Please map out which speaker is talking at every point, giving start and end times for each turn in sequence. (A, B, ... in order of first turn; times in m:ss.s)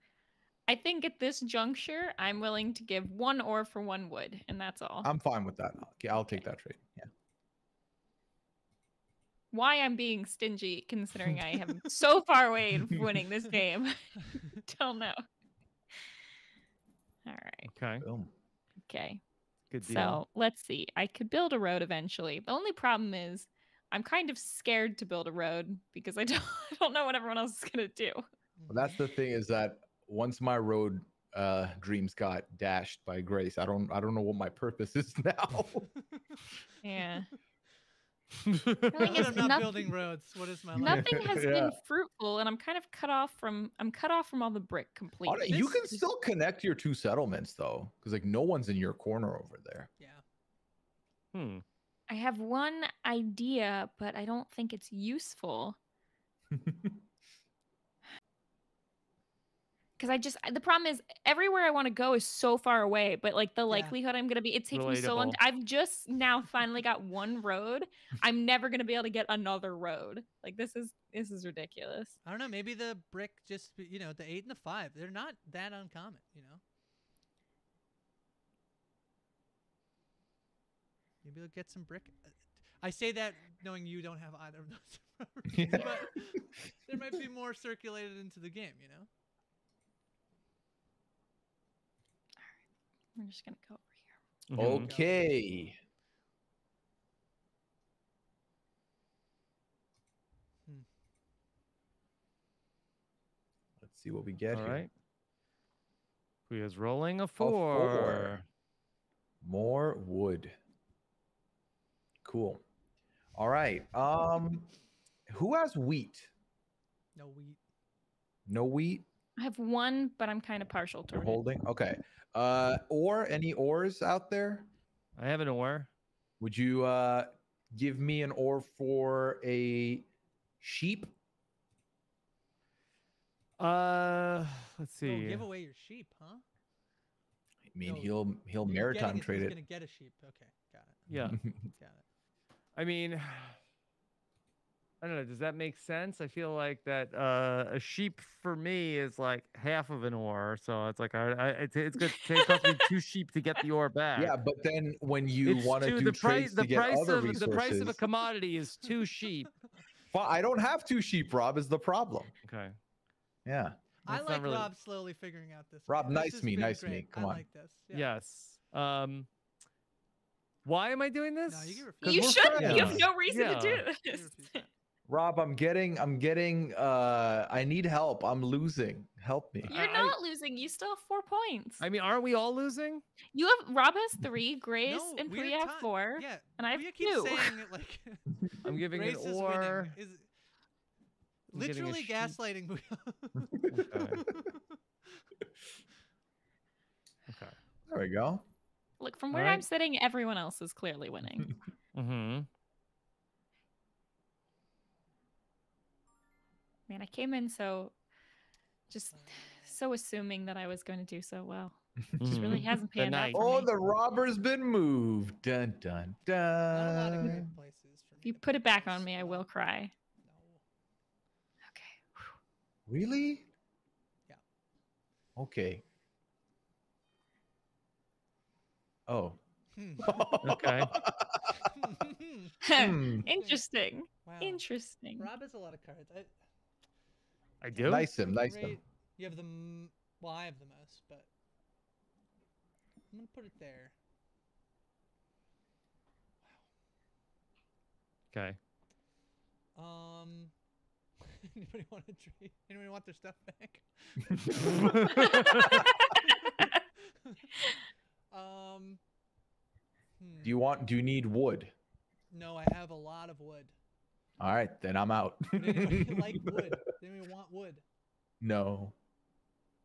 0:00.7-0:05.1 A
0:05.0-0:07.1 B
0:09.5-0:15.2 A
0:17.2-0:17.7 A
0:17.6-0:18.0 C
0:18.0-0:18.3 B
0:18.8-0:19.2 A
0:19.7-0:20.2 C
0:19.8-0:28.2 A
0:28.6-0:29.0 D
0:28.7-0:35.9 B
0:36.1-0:36.5 D
0:36.8-0:37.3 A
0:38.4-0:39.4 C
0:38.9-0:39.9 A
0:38.9-0:41.4 D
0:40.8-0:41.8 B
0:40.8-0:46.0 A
0:45.3-0:49.9 B
0:51.3-0:51.6 C
0:52.1-0:55.8 A
0:56.5-0:57.0 B
1:00.0-1:12.2 A
1:03.7-1:04.0 D
1:04.7-1:05.4 C
1:12.2-1:16.6 D
1:21.2-1:29.1 D
1:25.5-1:26.1 B
1:33.2-1:34.0 A
1:34.5-1:34.9 C
1:34.6-1:35.8 B
1:34.7-1:35.3 D
1:43.8-1:44.8 B
1:44.5-1:44.9 C
1:46.5-1:48.4 C
1:47.4-1:48.4 B
1:49.4-1:50.6 B
1:52.2-1:52.6 B
1:53.4-1:54.7 B
1:55.3-1:56.3 B
1:57.2-1:57.6 D
1:58.5-1:59.0 B
1:59.4-2:01.4 A
2:01.1-2:04.7 B
2:05.2-2:05.9 C
2:06.4-2:10.0 B
2:10.6-2:11.1 B
2:13.6-2:15.4 C
2:15.0-2:16.4 D
2:17.7-2:19.6 B
2:17.8-2:21.0 D
2:21.1-2:21.4 C
2:21.2-2:21.7 B
2:21.8-2:22.0 D
2:22.8-2:23.6 C
2:25.0-2:34.4 C
2:32.0-2:32.9 A
2:34.2-2:38.0 B
2:35.4-2:39.5 C
2:40.1-2:42.3 B
2:42.4-2:42.8 C
2:43.4-2:43.8 B
2:44.0-2:44.7 C
2:44.0-2:48.1 D
2:45.9-2:47.4 B
2:47.9-2:49.3 C
2:50.6-2:53.9 C
2:51.5-2:52.4 D
2:52.0-2:54.6 A
2:52.0-2:53.1 B
2:54.0-2:54.7 D
2:55.1-2:59.7 B
2:59.7-3:01.8 A
2:59.7-3:00.2 C
3:01.8-3:03.0 C
3:03.3-3:07.6 A
3:04.9-3:08.2 D
3:08.6-3:10.0 C
3:08.9-3:10.3 D
3:11.5-3:15.2 D
3:11.5-3:12.3 C
3:13.7-3:14.2 C
3:17.3-3:17.6 C
3:17.9-3:18.4 B
3:19.0-3:21.6 A
3:19.3-3:19.6 C
3:21.9-3:22.5 C
3:26.9-3:27.9 A
3:28.9-3:33.7 A
3:29.1-3:29.8 D
3:32.2-3:33.4 C
3:33.3-3:37.5 B
3:36.7-3:39.5 D
3:38.2-3:39.9 A
3:40.2-3:40.6 D
3:41.7-3:42.3 A
3:42.9-3:43.5 B
3:45.4-3:45.8 B
3:49.1-3:49.4 B
3:49.7-3:50.7 D
3:50.0-3:51.7 B
3:50.4-3:50.9 C
3:51.6-3:52.6 D
3:52.6-3:55.3 A
3:52.7-3:53.3 B
3:53.2-3:53.6 D
3:54.2-3:54.6 D
3:55.2-3:56.3 D
3:57.6-3:58.1 C
3:57.8-4:01.3 D
3:57.8-3:58.8 B
4:03.1-4:03.9 D
4:08.3-4:08.6 C
4:09.8-4:10.5 D
4:11.2-4:15.5 D
4:14.4-4:14.8 B
4:14.7-4:15.8 C
4:15.0-4:16.7 A
4:17.0-4:17.5 D
4:18.3-4:19.0 D
4:20.2-4:20.6 D
4:20.4-4:21.7 B
4:22.3-4:23.7 D
4:24.4-4:26.6 B
4:25.5-4:27.8 D
4:28.4-4:28.9 B